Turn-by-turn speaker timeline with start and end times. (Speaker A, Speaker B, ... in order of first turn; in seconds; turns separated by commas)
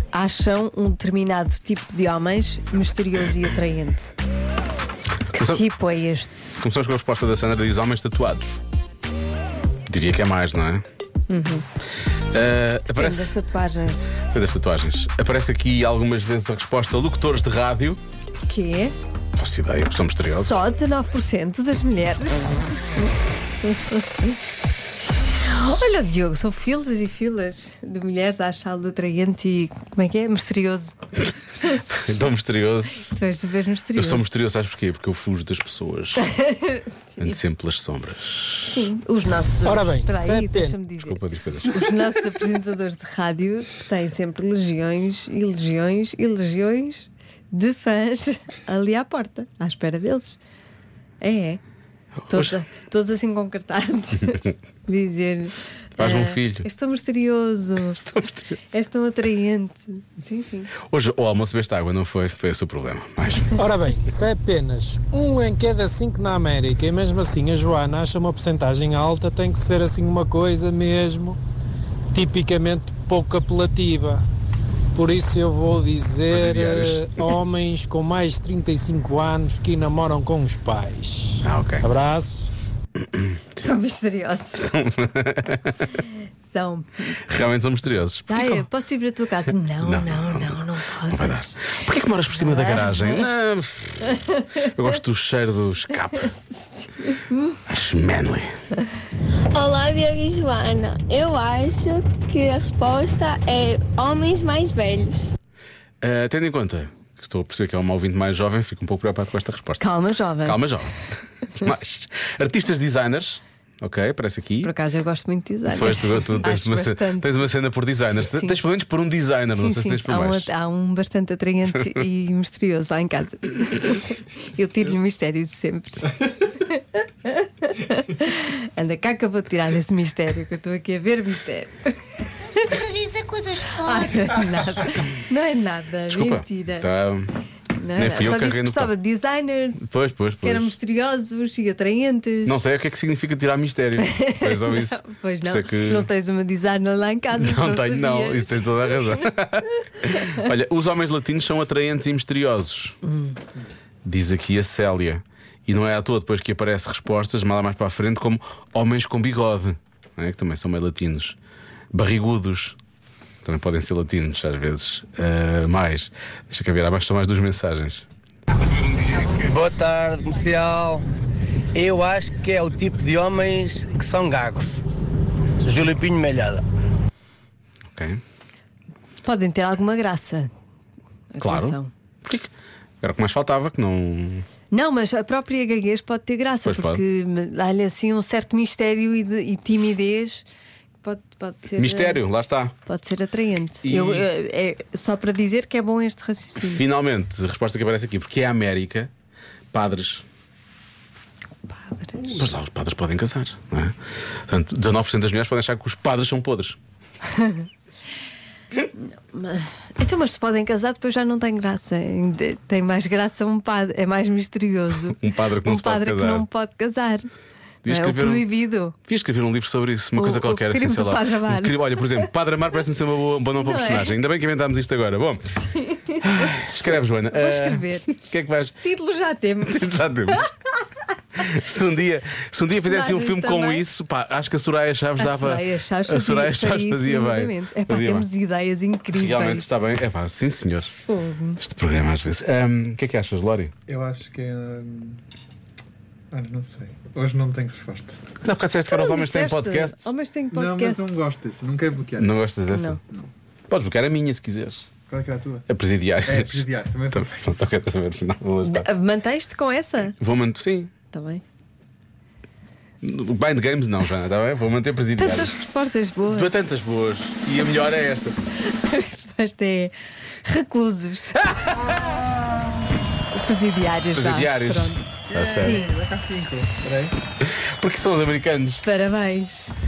Speaker A: 0.1-4.1, Speaker B: 5.3-5.7, Speaker A: 5.4-6.6, Speaker B: 6.6-8.6, Speaker B: 9.9-10.8, Speaker A: 11.3-11.6, Speaker B: 12.3-13.3, Speaker A: 12.9-14.0, Speaker B: 14.3-18.0, Speaker A: 18.4-18.9, Speaker B: 19.4-20.6, Speaker A: 20.2-23.1, Speaker A: 23.6-24.1, Speaker A: 25.3-31.0, Speaker B: 31.8-33.1, Speaker A: 33.0-34.3, Speaker B: 33.9-36.3, Speaker A: 36.2-37.4, Speaker B: 37.2-38.8, Speaker A: 38.6-50.4, Speaker C: 39.6-40.8, Speaker B: 41.0-41.8, Speaker A: 51.2-51.6, Speaker B: 52.3-52.5, Speaker A: 52.3-58.0, Speaker B: 56.0-56.7, Speaker B: 58.0-58.6, Speaker A: 58.7-60.7, Speaker B: 60.8-63.5, Speaker C: 63.6-71.4, Speaker C: 72.1-74.2, Speaker C: 74.9-82.5, Speaker B: 76.3-77.3, Speaker B: 81.4-81.9, Speaker A: 83.5-84.7, Speaker B: 84.6-86.0, Speaker A: 86.4-87.2, Speaker B: 87.2-88.7, Speaker A: 88.3-91.8, Speaker B: 89.8-96.3, Speaker A: 92.4-93.3, Speaker A: 94.1-94.6, Speaker A: 96.1-97.6, Speaker B: 97.7-98.5, Speaker D: 99.5-105.3, Speaker B: 106.0-109.8, Speaker A: 109.8-110.7, Speaker B: 110.4-114.7, Speaker A: 114.6-117.3, Speaker B: 115.7-120.5, Speaker A: 118.2-118.5, Speaker A: 119.5-131.9, Speaker A: 132.4-136.9, Speaker B: 136.1-137.3, Speaker A: 137.8-142.6, Speaker B: 137.9-138.9, Speaker B: 139.8-140.7, Speaker B: 142.4-146.1, Speaker A: 144.0-149.3, Speaker B: 147.3-153.0, Speaker A: 153.1-153.4, Speaker B: 154.0-161.4, Speaker B: 161.9-162.8, Speaker B: 163.4-168.0, Speaker E: 169.1-171.0, Speaker E: 171.7-174.8, Speaker E: 175.6-176.6, Speaker B: 177.9-178.2, Speaker A: 179.2-180.5, Speaker A: 181.3-181.9, Speaker B: 181.4-184.4, Speaker A: 184.7-190.4, Speaker B: 186.6-187.0, Speaker A: 191.0-192.2, Speaker B: 191.8-192.7, Speaker A: 192.8-196.8, Speaker B: 193.8-194.3, Speaker B: 196.6-199.1, Speaker B: 199.7-200.2, Speaker A: 201.7-202.4, Speaker B: 202.2-206.8, Speaker A: 207.3-207.7, Speaker A: 208.9-217.3, Speaker B: 215.0-216.4, Speaker B: 217.8-218.5, Speaker A: 217.8-218.9, Speaker B: 219.0-225.6, Speaker A: 220.2-222.2, Speaker A: 223.6-224.2, Speaker A: 225.6-228.1, Speaker B: 226.2-228.8, Speaker A: 228.8-230.5, Speaker B: 229.6-230.5, Speaker B: 231.4-238.3, Speaker A: 232.7-233.8, Speaker A: 235.2-239.7, Speaker B: 239.1-240.9, Speaker A: 241.0-241.6, Speaker B: 241.6-243.7, Speaker F: 243.9-245.2, Speaker F: 246.3-248.2, Speaker B: 248.4-250.1, Speaker A: 248.9-251.2, Speaker F: 250.5-252.4, Speaker B: 252.2-253.0, Speaker A: 252.7-253.0, Speaker B: 253.7-254.9, Speaker F: 255.1-255.7, Speaker B: 255.7-258.9, Speaker F: 256.2-257.4, Speaker A: 258.6-260.1, Speaker B: 260.2-260.9, Speaker A: 261.1-261.4, Speaker B: 263.0-265.5, Speaker A: 265.2-266.5, Speaker B: 266.3-268.4, Speaker A: 268.5-271.5, Speaker A: 273.3-275.9, Speaker B: 274.1-275.8, Speaker F: 275.3-277.1, Speaker B: 277.4-278.8, Speaker A: 278.8-279.7